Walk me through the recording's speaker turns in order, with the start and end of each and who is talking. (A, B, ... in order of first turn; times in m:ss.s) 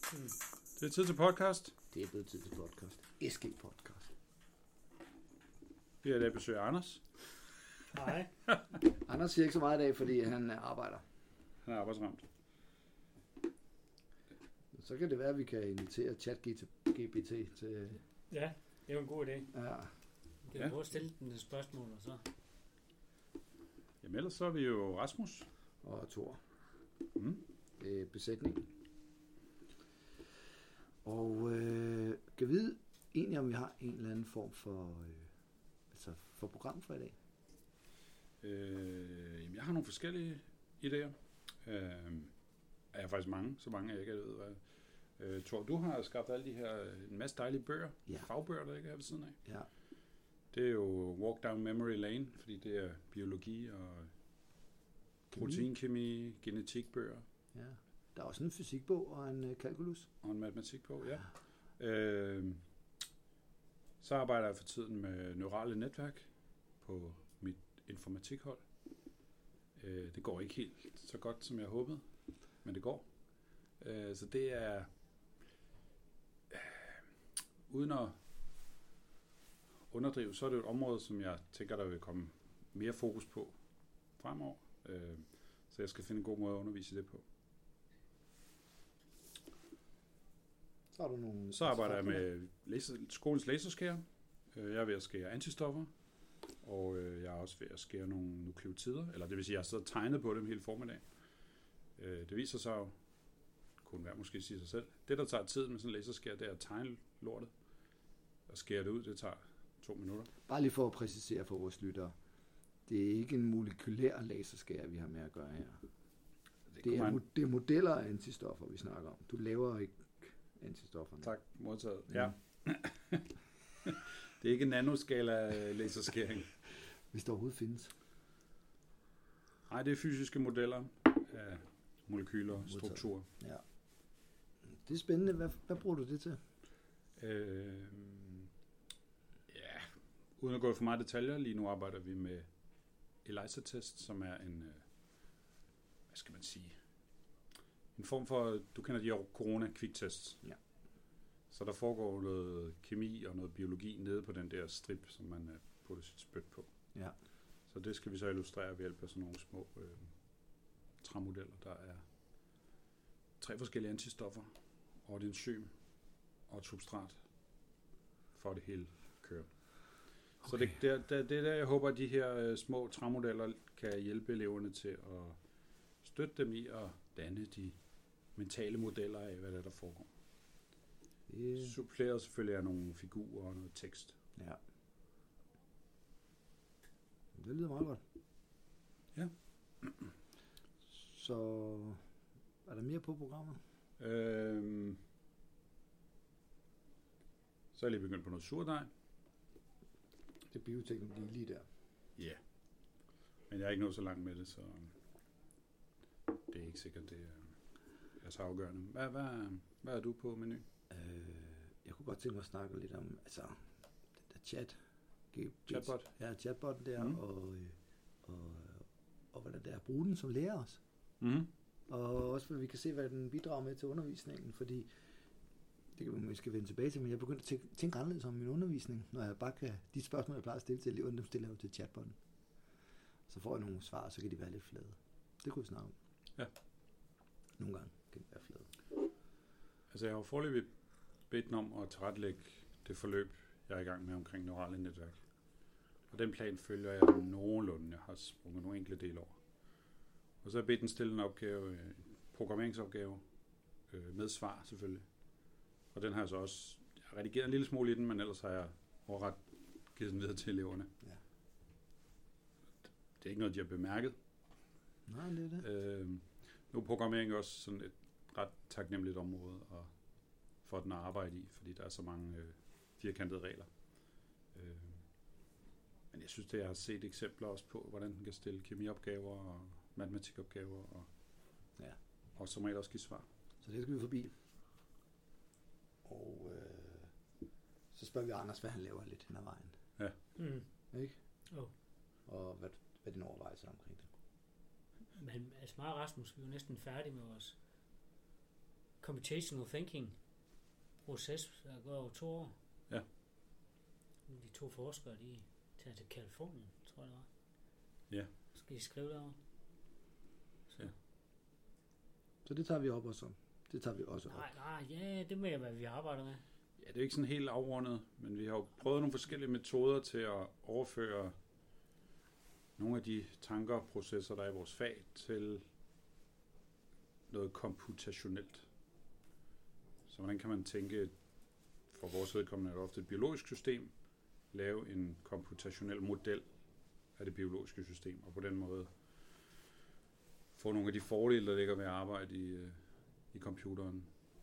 0:00.8-0:01.8 A
0:01.9-0:04.1 B
0:06.0-0:07.2 A
0:07.9-0:08.3 C
0:08.9-0:11.0 B
0:11.6-0:12.3 A
0:14.7-0:18.0 B
0:18.3-0:19.5 C
0:19.5-0:19.9 B
0:20.5-0:22.2 C
0:24.0-0:25.5 A
0:25.8-0:26.4 B
0:27.2-0:27.4 A
0:27.8-0:28.7 B
0:31.0-0:35.3 B
0:35.9-0:37.2 B
0:38.4-0:42.4 A
0:42.9-0:44.6 A
0:45.2-0:49.4 A
0:50.5-0:54.1 A
0:55.3-0:55.7 B
0:55.4-0:57.2 A
0:57.5-1:00.1 B
1:00.2-1:02.6 A
1:04.0-1:08.7 A
1:09.8-1:12.1 A
1:12.6-1:14.9 A
1:16.5-1:17.0 A
1:17.7-1:18.2 A
1:19.9-1:27.2 A
1:30.9-1:32.2 B
1:31.5-1:35.9 A
1:36.5-1:41.3 A
1:42.0-1:43.0 A
1:43.8-1:47.5 A
1:48.5-1:50.3 A
1:50.5-1:52.2 B
1:52.9-1:55.8 B
1:56.7-1:57.2 A
1:56.8-2:01.3 B
2:01.2-2:03.3 A
2:03.8-2:06.6 A
2:07.1-2:07.9 B
2:09.7-2:13.3 A
2:12.7-2:13.6 B
2:14.7-2:16.4 B
2:17.2-2:18.5 A
2:19.5-2:22.5 A
2:23.0-2:25.4 A
2:26.1-2:26.8 A
2:28.0-2:30.4 A
2:31.5-2:36.7 A
2:37.7-2:42.1 A
2:43.4-2:47.2 A
2:48.3-3:00.1 A
3:01.3-3:01.7 B
3:01.6-3:04.2 A
3:07.3-3:08.0 B
3:09.1-3:10.1 A
3:10.9-3:12.0 B
3:12.6-3:13.6 B
3:14.0-3:15.0 A
3:17.7-3:18.9 A
3:20.5-3:21.7 B
3:22.2-3:22.4 A
3:23.5-3:25.0 A
3:26.5-3:30.6 A
3:30.9-3:33.7 B
3:34.2-3:34.8 B
3:35.3-3:40.8 B
3:35.7-3:36.1 A
3:41.2-3:41.5 A
3:41.9-3:44.9 B
3:45.9-3:52.2 B
3:53.3-3:55.9 B
3:57.6-3:58.7 B
3:59.9-4:09.8 A
4:10.4-4:13.2 A
4:13.8-4:20.9 A
4:22.8-4:24.2 A
4:25.1-4:25.6 B
4:25.6-4:35.1 A
4:36.1-4:41.1 A
4:42.4-4:43.3 A
4:43.6-4:44.3 B
4:46.0-4:47.1 B
4:47.9-4:49.8 B
4:50.4-4:50.7 C
4:52.2-4:54.1 B
4:55.2-4:57.6 C
4:59.0-5:00.5 C
5:01.0-5:02.6 C
5:04.3-5:07.3 C
5:08.5-5:09.4 C
5:12.4-5:14.5 B
5:14.3-5:16.4 C
5:16.8-5:21.4 A
5:22.8-5:25.6 A
5:27.3-5:28.7 A
5:30.1-5:36.5 A
5:37.0-5:39.6 A
5:40.5-5:42.8 A
5:43.3-5:44.1 A